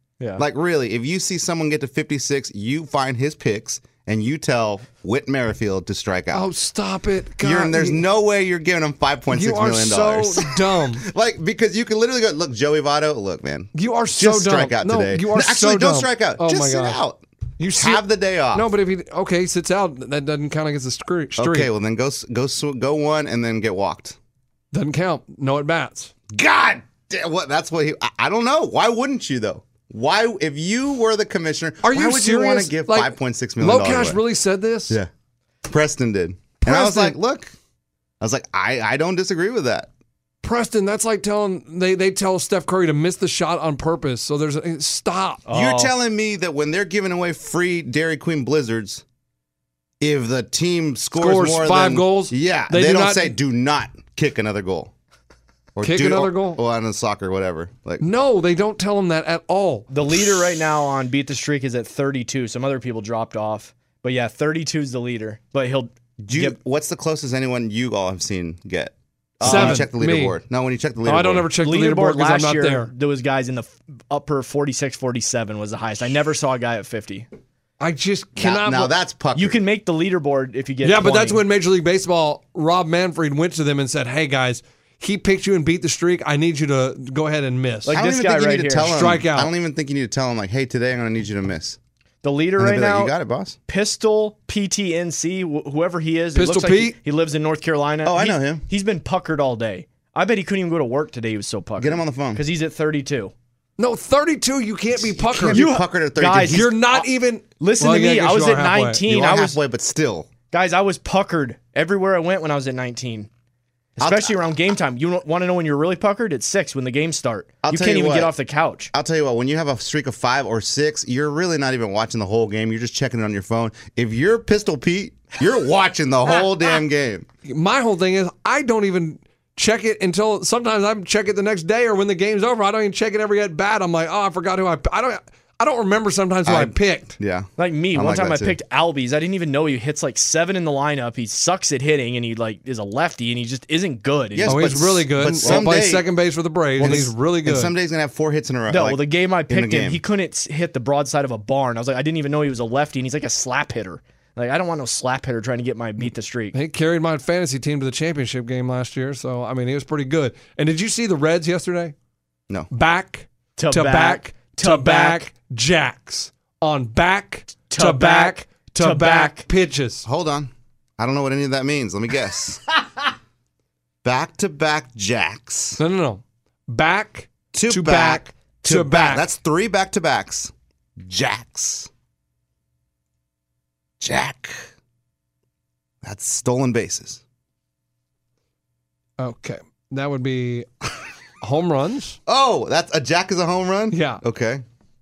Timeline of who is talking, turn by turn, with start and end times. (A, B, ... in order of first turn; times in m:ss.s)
0:00.2-0:00.4 A
0:00.4-0:06.5 B
0:06.3-0:08.0 C
0:07.4-0:17.2 B
0:09.3-0:11.1 C
0:13.7-0:17.0 C
0:17.6-0:21.7 C
0:17.7-0:18.7 B
0:21.4-0:24.2 B
0:24.7-0:26.1 C
0:26.3-0:34.2 B
0:31.8-0:35.0 C
0:35.6-0:37.6 B
0:36.6-0:37.2 C
0:38.2-0:39.9 B
0:40.4-0:45.4 C
0:45.5-0:45.9 A
0:45.5-0:49.0 B
0:50.0-0:54.9 B
0:51.1-0:53.4 C
0:55.8-0:58.0 B
0:55.8-0:56.6 C
0:58.0-0:59.9 C
0:59.9-1:06.6 A
1:06.2-1:11.5 B
1:09.4-1:09.9 A
1:09.4-1:10.4 C
1:11.0-1:12.9 C
1:11.6-1:17.3 A
1:17.8-1:18.9 C
1:18.4-1:19.6 B
1:19.3-1:21.4 A
1:20.8-1:28.0 C
1:27.8-1:29.1 A
1:27.9-1:31.8 B
1:28.8-1:29.5 C
1:32.2-1:33.1 A
1:32.6-1:33.6 B
1:33.7-1:43.3 A
1:36.3-1:37.0 C
1:38.0-1:38.6 B
1:41.8-1:42.4 B
1:43.8-1:45.7 C
1:45.0-1:46.7 B
1:45.5-1:47.0 A
1:46.5-1:49.0 C
1:47.6-1:49.6 A
1:49.0-1:50.3 B
1:50.5-1:53.3 A
1:54.0-1:58.9 A
1:54.0-1:54.4 B
1:57.6-1:58.4 B
1:58.9-2:07.2 B
2:07.4-2:17.2 C
2:16.4-2:18.6 B
2:17.6-2:24.8 A
2:24.3-2:26.0 B
2:24.5-2:27.7 C
2:25.4-2:25.7 A
2:26.8-2:27.1 A
2:26.8-2:30.0 B
2:28.7-2:36.5 A
2:36.5-2:41.9 C
2:42.7-2:50.0 C
2:43.6-2:45.3 A
2:47.7-2:49.4 A
2:50.0-2:52.6 B
2:54.0-2:55.8 B
2:55.8-2:59.2 C
2:57.5-3:01.9 B
3:04.0-3:04.6 B
3:06.0-3:07.2 B
3:09.2-3:10.7 C
3:11.4-3:12.2 C
3:12.3-3:14.6 B
3:13.9-3:14.2 C